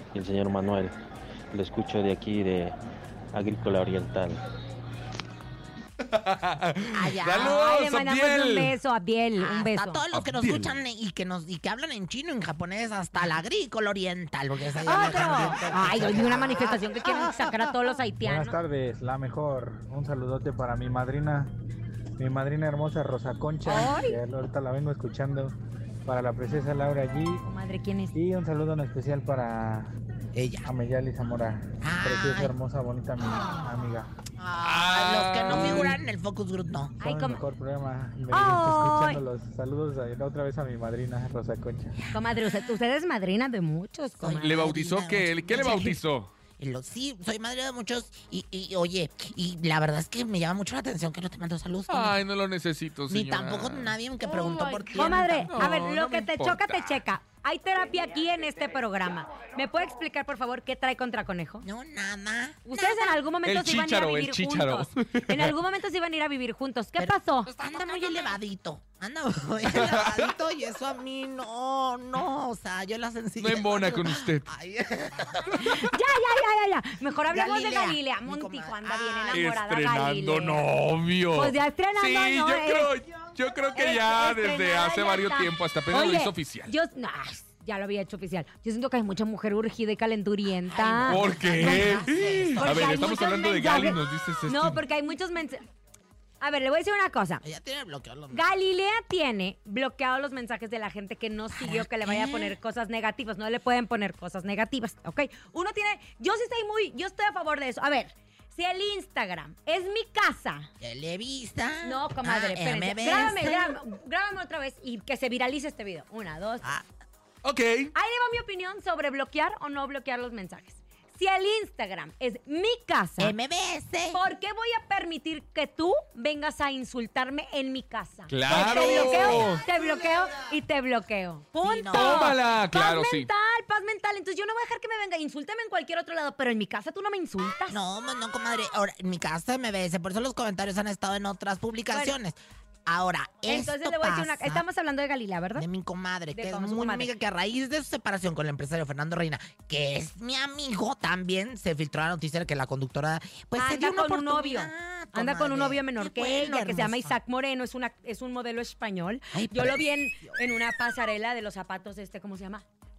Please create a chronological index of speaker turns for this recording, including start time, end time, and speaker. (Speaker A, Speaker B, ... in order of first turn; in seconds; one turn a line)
Speaker A: 0.1-0.9
Speaker A: 1.5-2.8
Speaker A: 3.3-4.4
Speaker B: 6.0-8.8
Speaker C: 6.9-7.7
Speaker D: 7.4-10.0
Speaker C: 9.4-17.8
Speaker B: 10.1-10.7
Speaker D: 14.8-18.6
Speaker E: 15.1-15.5
Speaker E: 18.2-21.5
Speaker E: 22.2-25.6
Speaker D: 23.7-24.2
Speaker E: 26.1-27.4
Speaker D: 27.4-28.2
Speaker E: 28.1-29.9
Speaker C: 30.3-30.7
Speaker E: 30.6-34.1
Speaker C: 31.8-32.5
Speaker C: 34.4-37.0
Speaker B: 34.6-36.0
Speaker D: 37.0-37.4
Speaker E: 37.0-42.0
Speaker D: 38.3-39.2
Speaker C: 42.0-42.8
Speaker D: 42.1-44.7
Speaker C: 44.2-46.0
Speaker B: 44.4-46.3
Speaker C: 46.6-52.2
Speaker B: 51.9-57.0
Speaker C: 53.1-55.7
Speaker D: 55.0-61.6
Speaker C: 61.6-63.2
Speaker D: 62.7-67.5
Speaker B: 63.4-65.5
Speaker C: 67.0-75.8
Speaker B: 69.7-70.3
Speaker B: 73.4-74.5
Speaker D: 75.6-80.6
Speaker C: 77.3-79.5
Speaker B: 79.3-86.7
Speaker D: 81.3-83.0
Speaker D: 83.8-92.0
Speaker C: 90.7-93.3
Speaker B: 91.1-94.8
Speaker D: 92.6-95.6
Speaker D: 96.4-97.4
Speaker C: 97.4-98.5
Speaker D: 98.3-110.7
Speaker C: 101.5-102.6
Speaker C: 110.8-113.8
Speaker D: 111.8-116.7
Speaker B: 117.4-117.9
Speaker D: 117.9-123.3
Speaker C: 123.2-124.2
Speaker D: 124.1-137.8
Speaker B: 128.3-129.6
Speaker C: 128.5-129.6
Speaker C: 131.6-132.4
Speaker B: 131.9-133.3
Speaker C: 137.7-144.7
Speaker D: 143.5-145.7
Speaker C: 145.6-157.2
Speaker D: 146.3-147.1
Speaker D: 153.6-162.7
Speaker C: 159.3-160.4